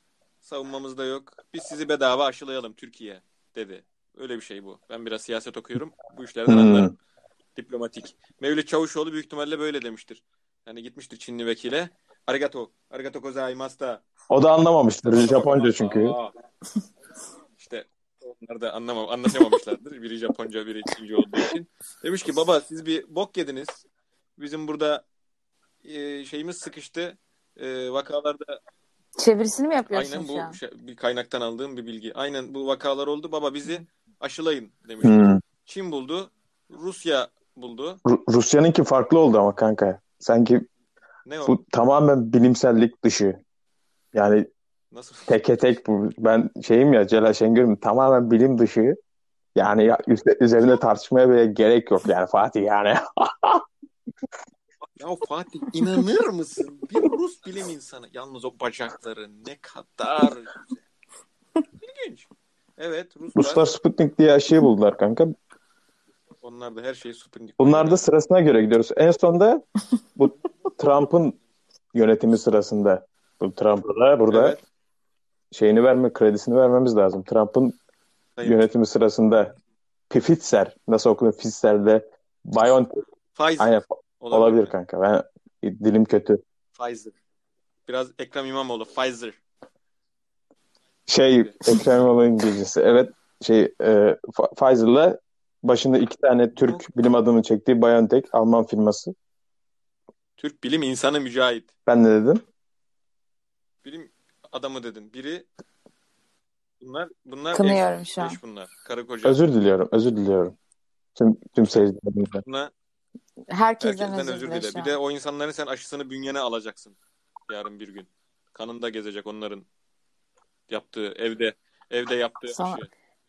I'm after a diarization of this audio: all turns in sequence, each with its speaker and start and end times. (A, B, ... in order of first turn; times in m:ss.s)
0:00.4-0:06.9 A
0:06.5-0:06.9 B
0:07.6-0:14.0 A
0:14.3-0:16.2 B
0:15.1-0:16.3 A
0:17.6-0:23.8 A
0:24.4-0:25.0 A
0:25.8-0:28.6 A
0:29.2-0:30.6 C
0:29.9-0:38.0 A
0:35.0-0:35.4 B
0:38.0-0:40.6 B
0:41.2-0:41.5 A
0:41.4-0:43.4 B
0:44.1-0:44.5 B
0:44.9-0:45.4 A
0:45.3-0:49.0 B
0:49.6-0:53.6 B
0:54.9-1:00.8 A
1:01.8-1:03.7 A
1:03.4-1:05.3 B
1:06.4-1:08.1 A
1:07.6-1:11.4 B
1:11.9-1:14.6 B
1:14.3-1:14.6 A
1:15.5-1:17.8 B
1:18.4-1:18.6 A
1:18.4-1:19.5 B
1:20.1-1:23.0 B
1:23.4-1:24.8 A
1:23.6-1:26.4 B
1:26.8-1:27.1 A
1:27.9-1:29.4 A
1:31.1-1:39.1 B
1:31.4-1:31.9 A
1:36.6-1:36.9 A
1:40.4-1:41.7 A
1:41.9-1:42.4 B
1:43.8-1:45.5 A
1:46.8-1:49.4 A
1:47.5-1:48.4 C
1:49.2-1:50.6 B
1:51.2-1:52.4 B
1:52.4-1:52.7 A
1:53.5-1:55.0 C
1:53.8-1:57.0 A
1:57.5-1:59.7 A
2:00.7-2:02.9 A
2:02.5-2:02.9 C